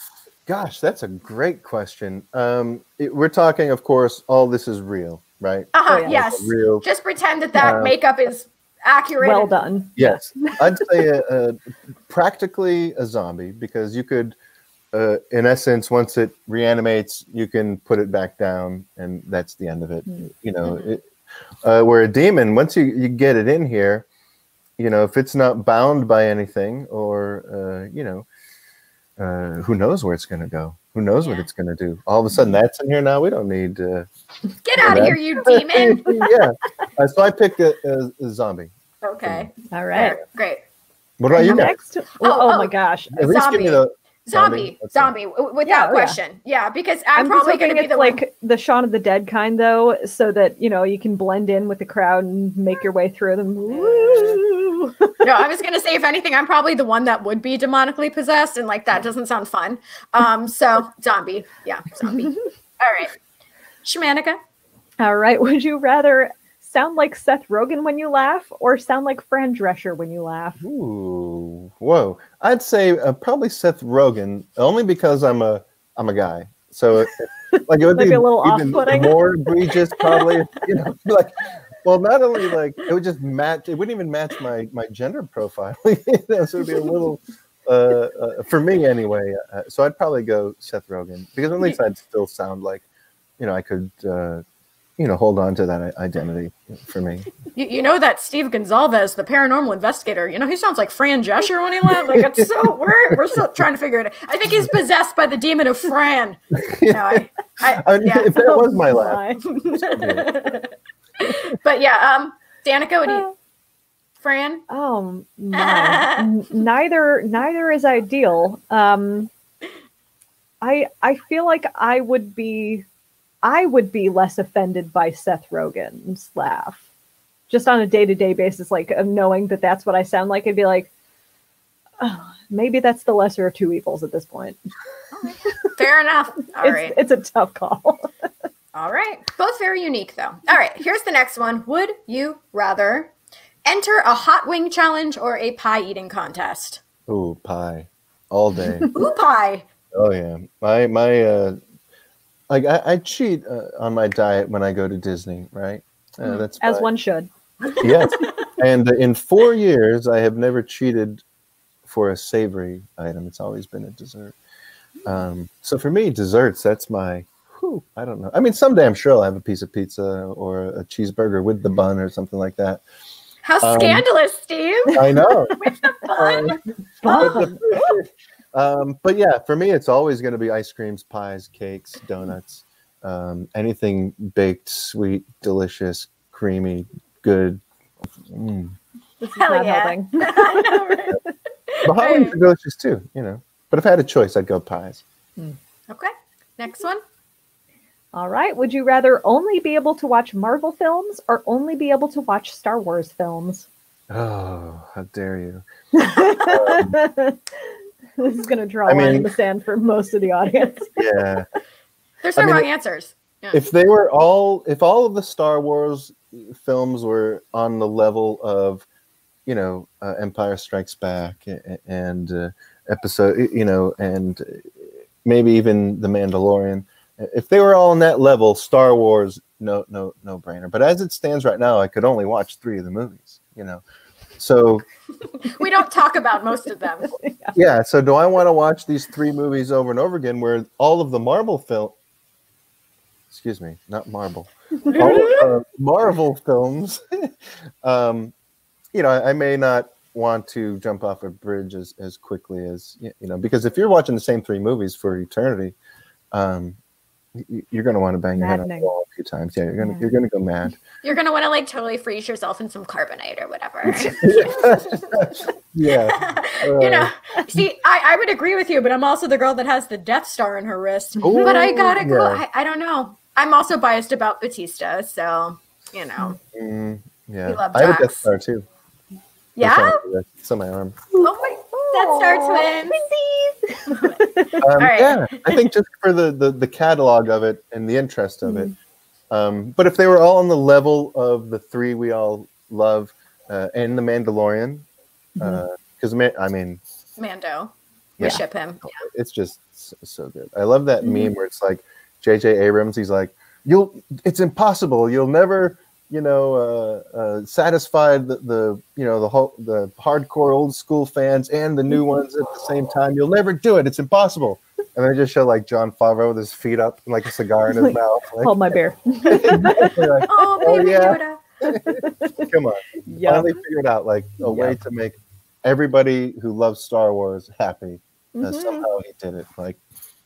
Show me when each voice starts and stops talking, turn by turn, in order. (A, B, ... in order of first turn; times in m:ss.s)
0:00.5-0:06.8 A
0:05.7-0:09.6 B
0:05.9-0:06.2 C
0:07.6-0:08.0 A
0:09.2-0:10.9 C
0:10.0-0:14.4 A
0:14.9-0:21.0 A
0:21.6-0:24.1 A
0:24.8-0:28.2 A
0:29.2-0:34.1 A
0:31.2-0:31.5 B
0:34.6-0:36.0 B
0:34.8-0:38.7 A
0:39.0-0:40.6 B
0:39.2-0:39.5 A
0:39.7-0:40.2 C
0:41.2-0:41.7 A
0:41.3-0:43.2 C
0:41.4-0:48.2 B
0:43.1-0:45.1 A
0:45.6-0:46.2 C
0:47.2-0:55.1 C
0:53.7-0:54.4 B
0:55.2-1:03.1 B
1:03.8-1:04.4 B
1:05.0-1:10.6 C
1:10.6-1:32.8 A
1:17.5-1:19.2 C
1:20.0-1:20.3 C
1:33.4-1:34.4 A
1:35.0-1:37.3 A
1:37.5-1:48.3 B
1:41.9-1:42.5 A
1:46.5-1:47.2 A
1:47.7-1:49.2 A
1:48.3-1:49.4 C
1:49.4-1:53.3 B
1:49.7-1:50.6 A
1:54.2-1:54.6 B
1:54.7-1:59.3 C
1:55.5-1:56.3 B
2:00.6-2:02.8 C
2:03.4-2:06.8 C
2:07.5-2:10.9 C
2:12.0-2:14.6 C
2:15.1-2:16.9 B
2:16.6-2:18.1 C
2:18.7-2:23.1 B
2:23.6-2:26.8 B
2:27.1-2:28.9 A
2:28.9-2:29.7 B
2:29.9-2:31.6 A
2:32.5-2:36.9 A
2:36.6-2:38.1 C
2:37.8-2:41.2 A
2:38.0-2:38.3 B
2:41.8-2:44.4 A
2:45.0-2:52.8 A
2:53.4-2:55.0 B
2:53.6-2:54.0 A
2:55.0-2:55.5 A
2:55.2-2:55.6 C
2:55.6-2:57.4 B
2:56.2-2:56.6 A
2:57.0-2:57.9 C
2:57.1-3:07.6 A
3:08.3-3:08.8 A
3:09.2-3:11.3 C
3:09.4-3:11.2 B
3:11.7-3:12.4 B
3:11.8-3:15.0 A
3:15.9-3:17.0 B
3:18.1-3:23.7 C
3:24.1-3:25.6 A
3:25.9-3:27.4 C
3:26.4-3:27.0 A
3:28.2-3:31.0 C
3:28.8-3:29.3 A
3:31.0-3:31.5 A
3:32.2-3:33.6 B
3:32.4-3:32.7 A
3:33.5-3:38.8 A
3:39.4-3:53.8 A
3:54.4-3:54.8 A
3:55.4-3:57.1 B
3:57.0-3:57.6 C
3:57.5-4:01.9 A
4:03.3-4:07.3 A
4:04.8-4:05.5 B
4:07.8-4:08.3 A
4:08.9-4:15.8 A
4:16.3-4:16.8 A
4:17.4-4:20.8 A
4:18.3-4:18.9 C
4:19.8-4:20.2 C
4:21.0-4:25.3 B
4:24.2-4:27.6 A
4:25.9-4:36.4 B
4:31.2-4:32.0 C
4:31.2-4:32.4 A
4:36.5-4:38.6 A
4:37.4-4:38.2 B
4:39.6-4:40.0 B
4:39.6-4:41.0 A
4:41.1-4:44.6 C
4:41.2-4:43.0 B
4:44.6-4:48.7 A
4:44.8-4:45.6 B
4:48.4-4:48.7 C
4:49.3-4:54.8 A
4:55.4-4:55.6 C
4:55.4-4:56.8 A
4:57.2-4:58.9 B
4:58.2-5:29.8 A
5:01.0-5:01.3 C
5:17.7-5:20.0 C
5:20.3-5:21.4 B
5:21.9-5:22.5 C
5:23.0-5:23.5 C
5:24.4-5:24.8 C
5:28.3-5:28.9 C